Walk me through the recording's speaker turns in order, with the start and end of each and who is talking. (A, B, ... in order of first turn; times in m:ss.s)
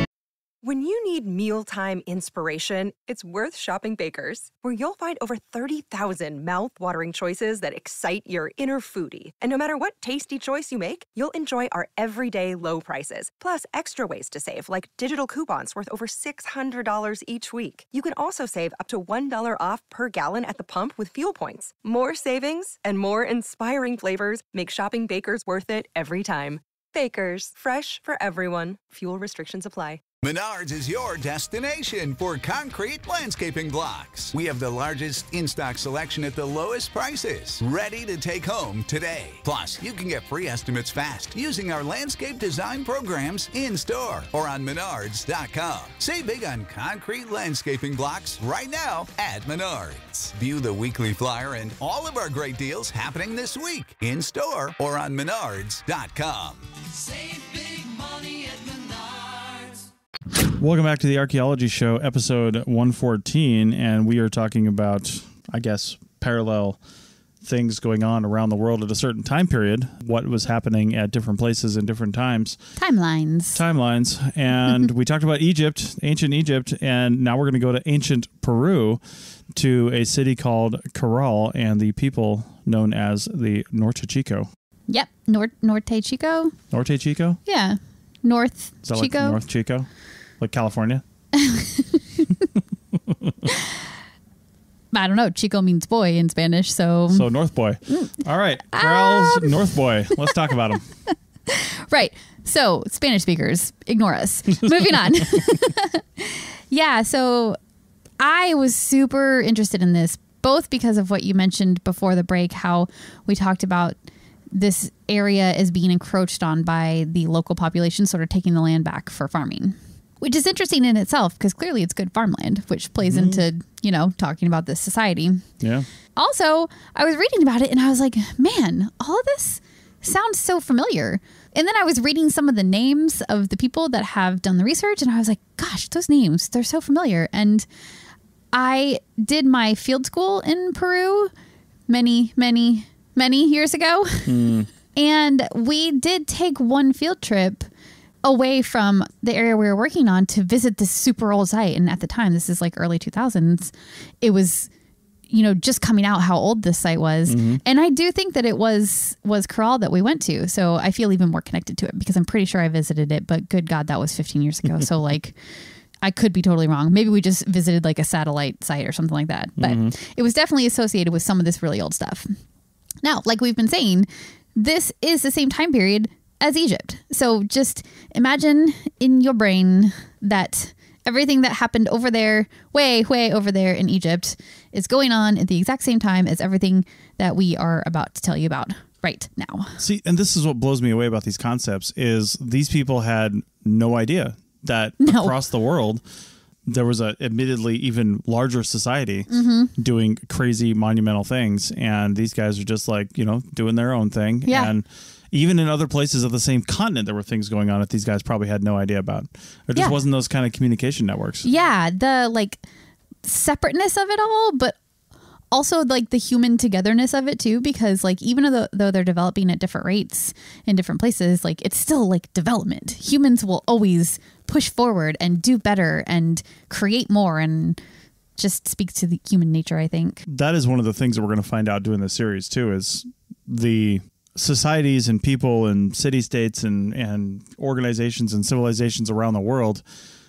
0:00.6-0:30.0 A
0:30.2-0:56.6 B
0:57.2-0:59.6 B
1:00.5-1:06.8 C
1:07.4-1:12.6 C
1:12.8-1:13.6 D
1:13.5-1:19.0 C
1:19.5-1:24.5 C
1:24.9-1:26.5 D
1:26.7-1:27.4 C
1:27.4-1:29.4 D
1:28.8-1:29.9 C
1:30.4-1:31.0 C
1:31.3-1:32.3 D
1:33.1-1:33.4 C
1:33.5-1:33.8 D
1:34.9-1:37.3 D
1:37.1-1:40.8 C
1:37.9-1:38.2 D
1:38.7-1:40.4 D
1:41.1-1:47.6 D
1:48.2-1:53.9 D
1:54.5-2:05.4 D
2:03.0-2:03.4 C
2:05.6-2:05.9 C
2:06.2-2:17.6 D
2:18.5-2:21.3 D
2:21.9-2:27.7 D
2:24.2-2:24.7 C
2:28.2-2:34.7 D
2:35.3-2:45.4 D
2:37.3-2:37.6 C
2:46.0-2:52.3 D
2:49.6-2:49.9 C
2:53.0-3:09.8 D
3:09.8-3:16.0 C
3:15.0-3:15.3 D
3:16.6-3:31.5 C
3:19.3-3:19.7 D
3:24.4-3:24.7 D
3:31.4-3:32.6 D
3:33.2-3:34.8 D
3:35.5-3:47.8 D
3:48.4-3:50.2 D
3:50.3-3:59.8 C